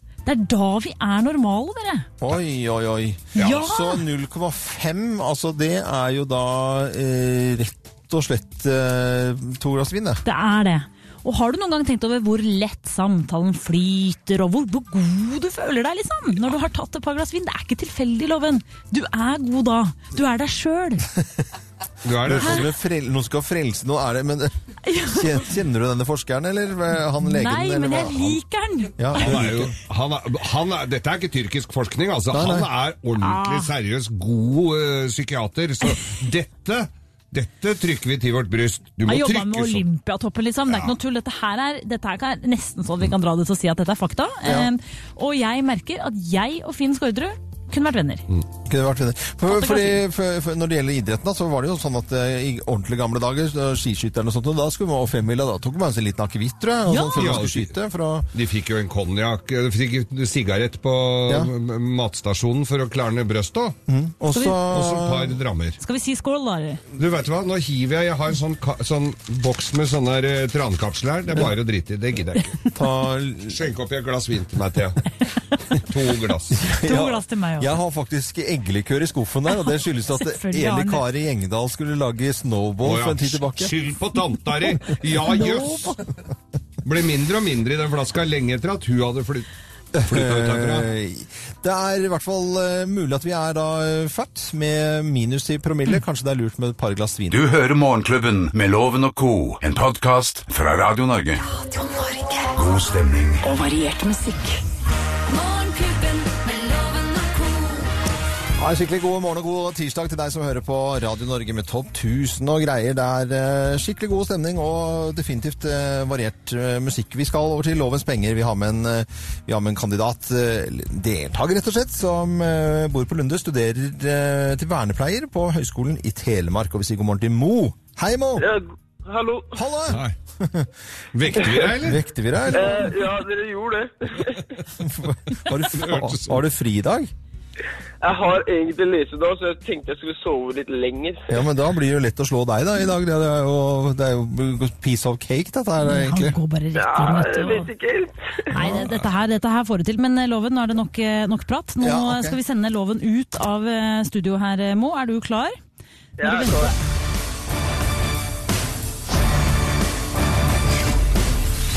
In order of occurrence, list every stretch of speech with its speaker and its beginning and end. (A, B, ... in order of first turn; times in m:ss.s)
0:00.2-0:02.1 A
0:02.2-0:10.2 B
0:03.3-0:04.0 A
0:10.2-0:21.1 A
0:22.0-0:22.7 C
0:22.2-0:28.4 B
0:22.4-0:22.6 A
0:24.8-0:25.5 A
0:27.2-0:29.4 A
0:29.0-0:29.7 B
0:29.2-0:39.8 C
0:32.3-0:32.7 B
0:33.2-0:33.7 A
0:39.0-0:48.2 A
0:40.7-0:40.9 C
0:44.4-0:44.7 B
0:48.6-0:58.3 B
0:49.5-0:50.0 A
0:56.9-0:57.4 A
0:57.2-0:57.7 C
0:58.3-1:03.8 C
1:03.9-1:05.4 B
1:04.6-1:05.8 C
1:05.8-1:06.8 A
1:07.0-1:12.6 C
1:12.7-1:13.6 B
1:13.5-1:15.1 C
1:15.7-1:16.6 C
1:16.5-1:23.7 B
1:16.8-1:17.7 A
1:19.5-1:21.0 A
1:22.8-1:25.9 C
1:25.3-1:26.0 A
1:26.8-1:29.5 C
1:29.9-1:37.4 B
1:30.0-1:30.9 C
1:37.3-1:41.4 D
1:41.5-1:42.5 A
1:42.5-1:43.4 D
1:43.4-1:44.6 A
1:45.3-1:47.8 A
1:48.6-2:08.5 B
2:08.4-2:09.6 E
2:09.5-2:10.7 B
2:09.9-2:10.2 C
2:11.1-2:12.0 C
2:11.7-2:12.9 B
2:12.5-2:14.6 E
2:14.8-2:17.1 B
2:15.6-2:16.4 C
2:18.0-2:21.3 E
2:21.3-2:26.4 B
2:25.8-2:27.7 A
2:26.7-2:28.4 E
2:28.5-2:35.6 A
2:28.6-2:28.9 B
2:31.8-2:32.4 B
2:36.2-2:36.7 E
2:36.2-2:36.7 A